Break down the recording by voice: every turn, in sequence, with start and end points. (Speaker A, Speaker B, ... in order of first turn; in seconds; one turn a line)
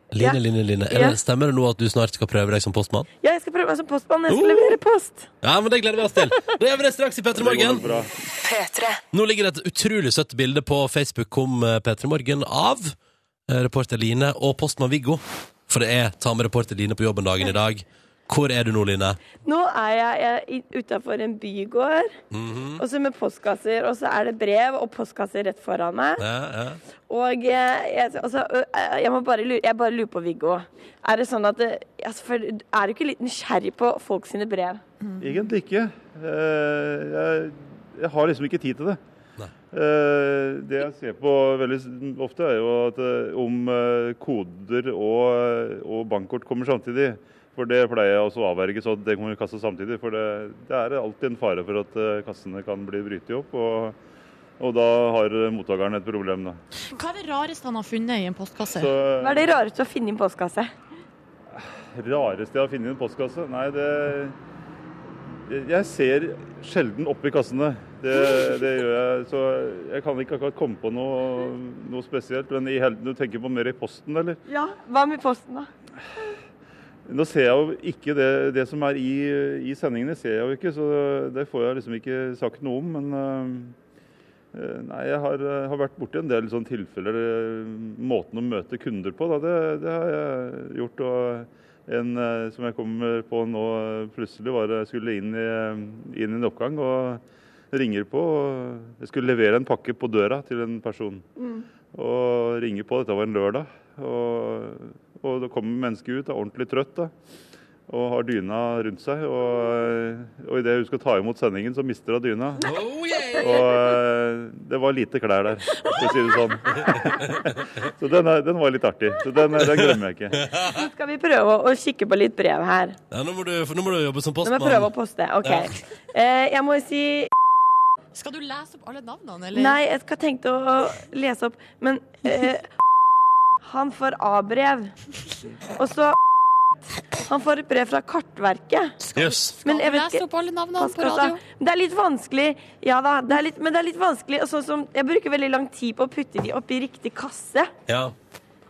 Speaker A: 0.1-3.1
Speaker B: 0.9-1.2
Speaker B: 3.2-5.3
Speaker A: 4.3-4.8
Speaker A: 5.4-7.9
Speaker C: 7.3-8.1
Speaker A: 9.1-12.9
Speaker A: 13.5-19.2
Speaker B: 19.4-22.1
Speaker A: 22.3-22.8
Speaker B: 22.8-26.2
Speaker A: 26.2-26.8
Speaker B: 27.1-34.8
Speaker D: 35.0-35.3
Speaker C: 35.2-39.0
Speaker C: 39.7-54.0
Speaker C: 54.6-56.6
Speaker D: 56.9-58.9
Speaker C: 58.7-59.5
Speaker B: 59.2-60.7
Speaker C: 61.6-64.3
Speaker C: 65.3-74.4
Speaker B: 74.5-75.7
Speaker C: 77.1-83.8
Speaker C: 84.5-101.2
Speaker C: 101.9-107.1
Speaker C: 107.9-112.6
Speaker A: 112.6-113.7
Speaker C: 113.4-120.5
Speaker A: 116.8-117.2
Speaker A: 119.6-120.8
Speaker B: 120.8-123.0
Speaker A: 123.1-124.9
Speaker B: 124.5-127.3
Speaker A: 125.4-125.7
Speaker D: 128.2-129.8
Speaker B: 129.6-132.6
Speaker B: 133.7-134.9
Speaker B: 135.8-136.1
Speaker B: 137.3-138.9
Speaker D: 139.0-141.4
Speaker A: 139.2-139.5
Speaker B: 139.7-140.2
Speaker B: 140.8-147.7
Speaker A: 147.9-148.2